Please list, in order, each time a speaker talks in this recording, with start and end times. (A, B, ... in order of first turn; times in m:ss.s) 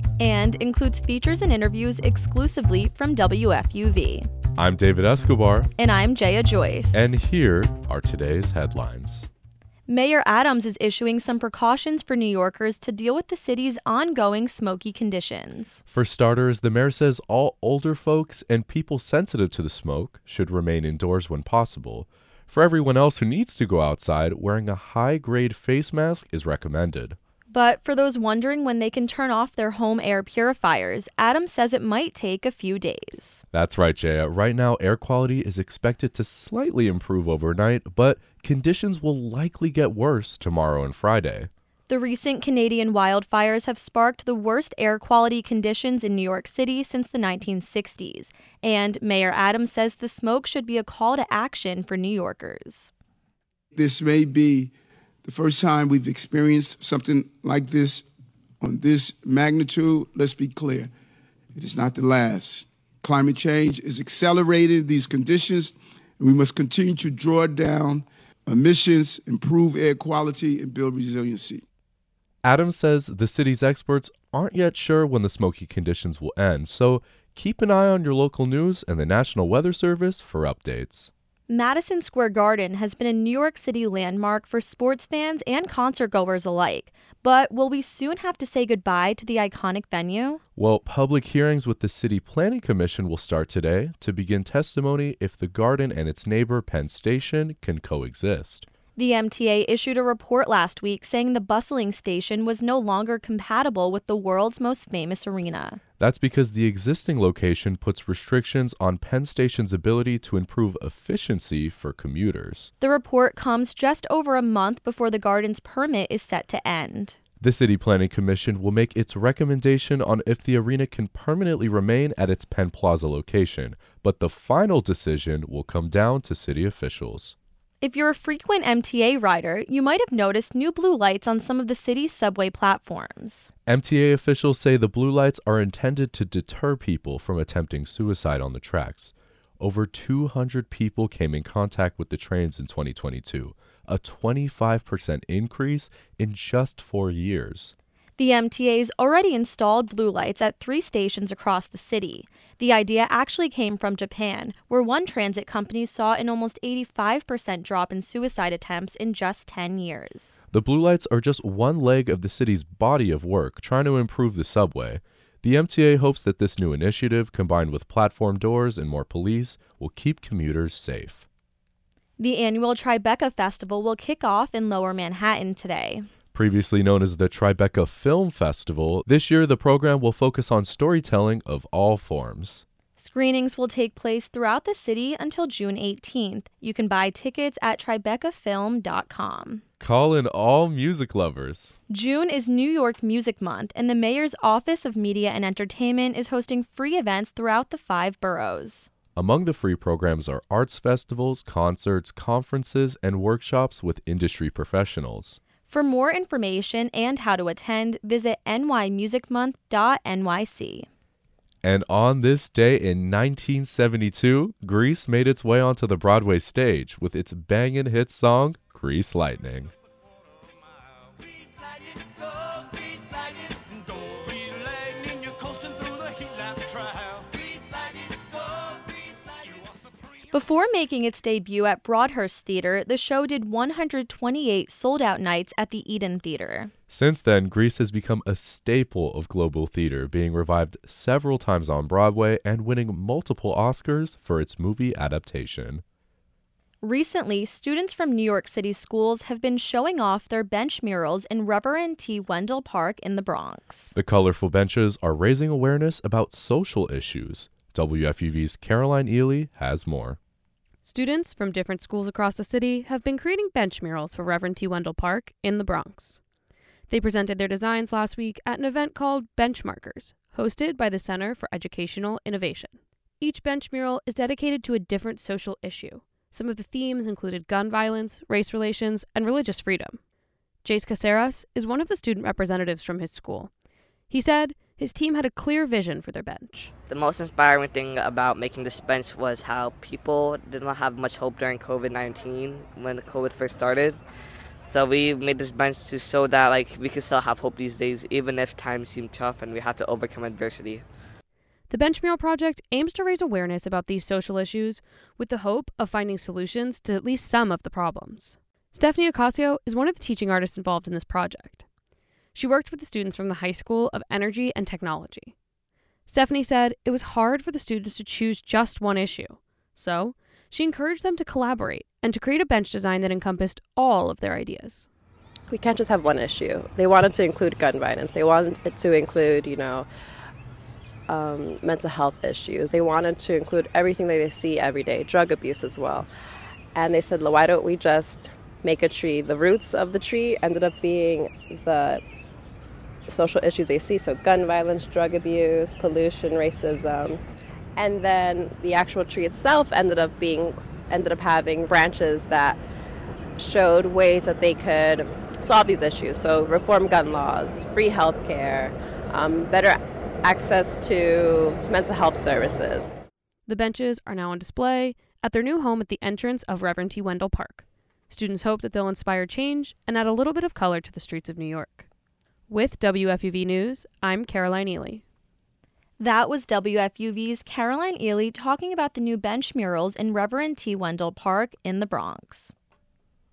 0:00.2-0:04.3 A
0:04.6-0:05.7 B
0:05.8-0:07.1 A
0:06.9-0:09.3 B
0:09.9-0:15.8 A
0:15.9-0:27.2 B
0:27.5-0:33.4 A
0:33.5-0:41.5 B
0:41.9-0:52.9 A
0:53.7-0:54.7 C
0:55.2-0:58.1 C
0:58.6-1:00.9 C
1:01.5-1:11.6 C
1:12.4-1:21.1 B
1:21.5-1:30.4 A
1:30.6-1:38.6 B
1:39.0-1:45.8 A
1:46.0-1:52.7 B
1:52.8-1:57.2 A
1:57.4-2:07.3 B
2:07.8-2:13.5 A
2:13.7-2:27.7 B
2:28.2-2:40.4 A
2:40.5-2:51.2 B
2:52.2-2:56.1 A
2:56.3-3:02.6 B
3:03.0-3:09.6 A
3:09.8-3:11.7 B
3:11.9-3:18.9 A
3:19.1-3:25.4 B
3:25.7-3:30.9 A
3:31.6-3:39.7 B
3:42.3-3:43.1 D
3:50.3-3:56.7 A
3:56.9-4:05.8 B
4:06.8-4:13.9 A
4:13.9-4:20.2 B
4:20.8-4:26.2 E
4:26.9-4:40.0 E
4:40.6-4:43.5 E
4:44.1-4:46.7 E
4:46.9-4:54.0 D
4:54.6-5:00.8 D
5:01.7-5:11.6 E
5:12.3-5:15.3 E
5:16.1-5:24.8 E
5:25.5-5:29.9 F
5:31.1-5:36.1 F
5:36.7-5:42.0 F
5:43.1-5:47.2 F
5:47.8-5:52.6 F
5:53.4-6:02.9 F
6:03.5-6:11.8 E
6:12.5-6:15.0 E
6:16.0-6:22.5 A